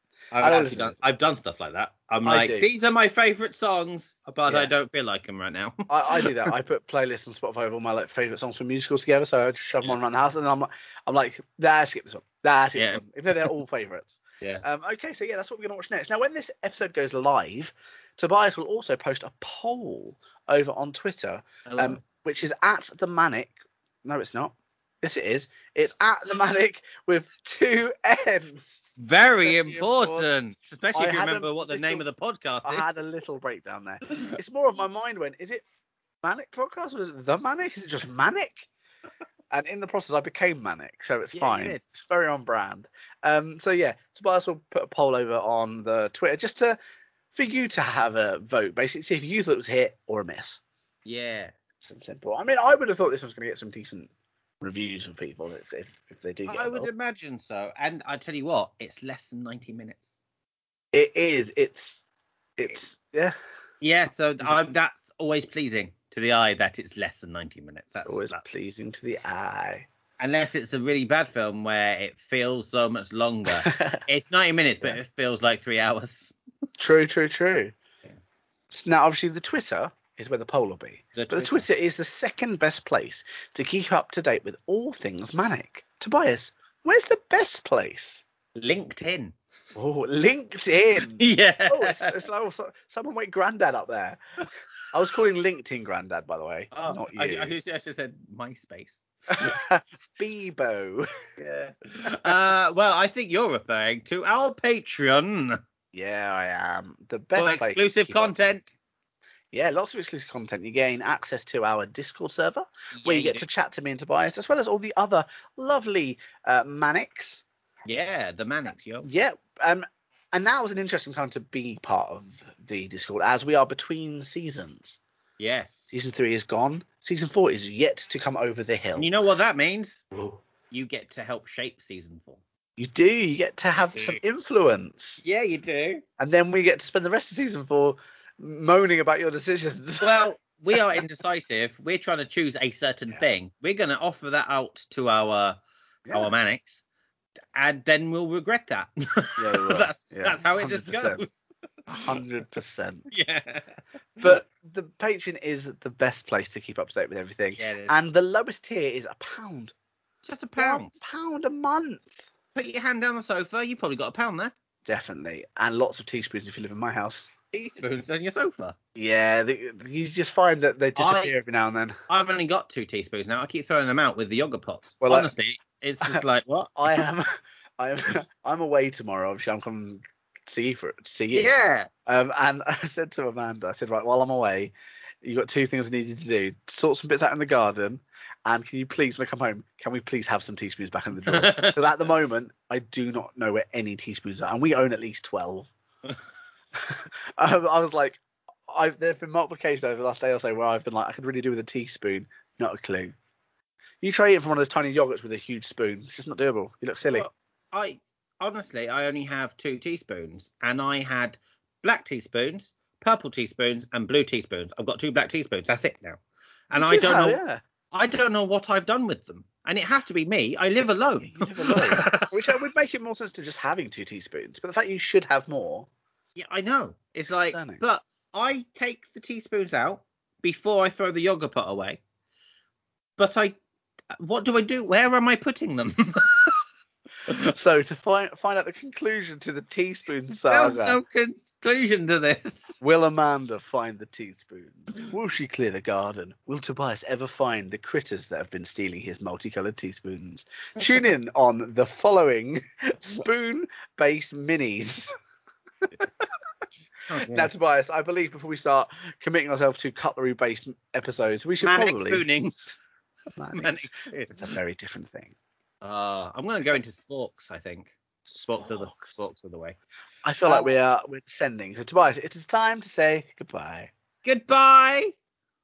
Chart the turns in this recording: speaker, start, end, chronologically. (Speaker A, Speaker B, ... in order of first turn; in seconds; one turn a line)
Speaker A: 0.3-6.5
Speaker B: 0.4-1.0
Speaker B: 2.2-2.7
Speaker B: 4.5-4.7
Speaker B: 5.9-30.3
Speaker A: 12.7-13.5
Speaker A: 21.6-22.0
Speaker A: 29.0-32.9
Speaker B: 30.9-32.0
Speaker B: 32.6-35.6
Speaker A: 34.1-34.3
Speaker B: 36.2-38.7
Speaker B: 39.5-46.8
Speaker A: 41.3-41.8
Speaker B: 47.3-50.6
Speaker A: 51.0-51.5
Speaker B: 51.8-54.1
Speaker B: 54.6-56.9
Speaker A: 56.5-60.1
Speaker B: 60.9-62.0
Speaker B: 62.6-63.3
Speaker A: 63.8-68.4
Speaker B: 68.0-69.8
Speaker A: 70.2-76.3
Speaker B: 73.5-74.0
Speaker B: 76.8-77.7
Speaker A: 78.0-78.3
Speaker B: 78.7-88.2
Speaker A: 81.1-81.7
Speaker A: 88.5-89.3
Speaker B: 89.7-94.2
Speaker A: 91.1-92.2
Speaker B: 94.9-97.5
Speaker A: 96.7-99.6
Speaker B: 99.3-101.1
Speaker A: 101.4-105.6
Speaker B: 105.9-108.5
Speaker A: 107.3-108.7
Speaker B: 109.5-117.4
Speaker A: 113.0-113.4
Speaker A: 117.9-119.1
Speaker B: 119.0-125.0
Speaker A: 125.4-125.9
Speaker B: 125.9-129.1
Speaker A: 128.9-130.0
Speaker A: 130.7-132.4
Speaker B: 132.8-135.2
Speaker A: 133.9-134.2
Speaker A: 135.2-136.0
Speaker B: 136.2-140.1
Speaker A: 140.0-145.6
Speaker B: 146.1-146.3
Speaker A: 146.1-146.8
Speaker A: 147.5-152.0
Speaker B: 149.3-151.2
Speaker B: 151.9-153.1
Speaker A: 153.1-154.4
Speaker B: 154.2-159.7
Speaker A: 157.6-158.0
Speaker A: 160.2-160.9
Speaker B: 160.6-162.2
Speaker A: 162.5-164.5
Speaker B: 164.8-167.3
Speaker A: 167.5-168.8
Speaker B: 168.9-172.0
Speaker A: 170.9-171.3
Speaker A: 172.1-176.8
Speaker B: 175.0-175.3
Speaker B: 176.8-181.5
Speaker A: 181.3-181.9
Speaker B: 182.1-195.7
Speaker A: 191.3-191.8
Speaker B: 196.8-203.1
Speaker B: 204.0-207.3
Speaker A: 207.1-217.4
Speaker B: 216.8-217.6
Speaker A: 217.9-222.3
Speaker B: 221.2-225.9
Speaker A: 226.3-232.0
Speaker B: 227.5-227.8
Speaker A: 233.2-233.6
Speaker A: 234.2-236.6
Speaker B: 237.4-241.0
Speaker A: 240.5-242.8
Speaker B: 242.8-255.1
Speaker B: 255.8-256.3
Speaker A: 257.1-257.5
Speaker B: 257.2-262.2
Speaker A: 261.6-262.8
Speaker B: 263.4-265.3
Speaker A: 263.5-264.5
Speaker A: 265.8-269.8
Speaker B: 268.6-269.2
Speaker B: 270.2-273.9
Speaker A: 270.4-270.7
Speaker A: 274.2-275.1